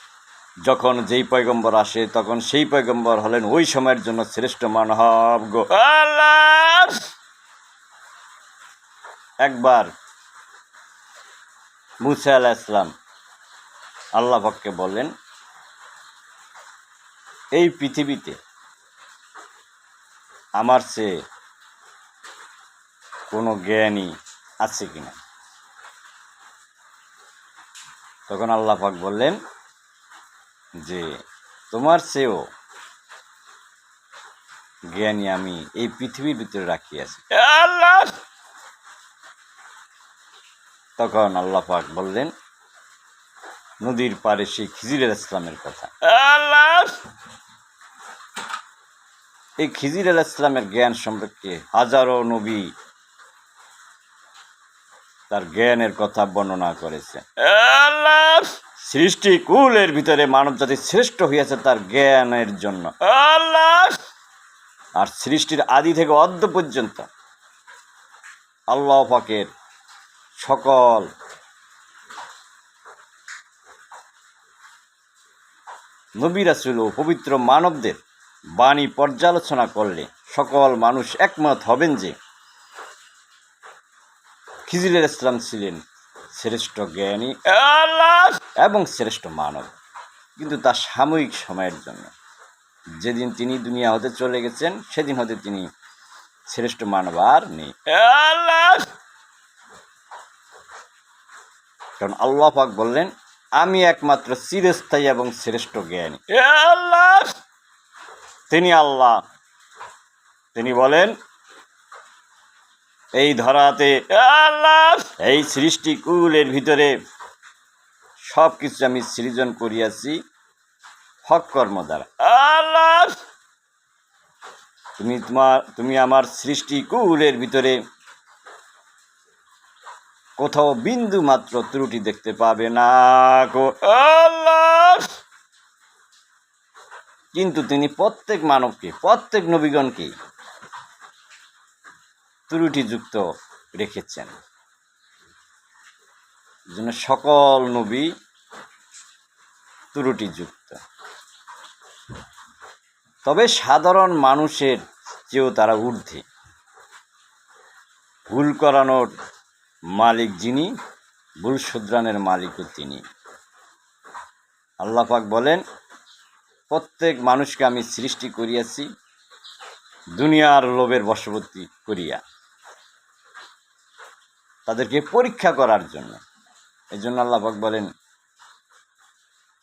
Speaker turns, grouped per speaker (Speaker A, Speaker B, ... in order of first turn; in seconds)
Speaker A: 0.6-6.2, 9.4-9.9, 12.0-12.9, 14.2-15.1, 17.5-18.4, 20.6-21.1, 23.3-25.2, 28.3-29.4, 30.8-31.1, 31.7-32.4, 34.9-37.3, 41.0-42.3, 43.8-46.0, 49.6-52.7, 55.3-57.3, 58.8-63.0, 65.0-67.1, 68.7-69.5, 70.4-71.1, 76.2-78.0, 78.6-82.1, 84.7-85.8, 86.3-87.4, 88.5-89.7, 90.4-92.1, 93.0-95.7, 96.5-97.9, 102.0-106.3, 108.5-109.2, 110.5-111.1, 113.2-116.9, 118.2-120.2, 121.2-122.2, 125.0-127.8, 130.4-135.0, 137.3-140.1, 142.5-143.2, 143.7-144.3, 146.7-148.1, 149.9-150.8, 153.2-156.2, 158.3-159.1, 159.9-160.7, 161.4-163.0, 164.8-165.6, 166.7-168.9, 170.2-172.2, 174.7-176.2, 176.9-177.9
Speaker B: 5.9-7.1, 37.3-38.1, 46.0-47.0, 57.4-58.5, 63.1-64.0, 87.5-88.4, 97.9-98.9, 106.3-107.3, 114.2-114.9, 122.2-123.2, 134.1-135.1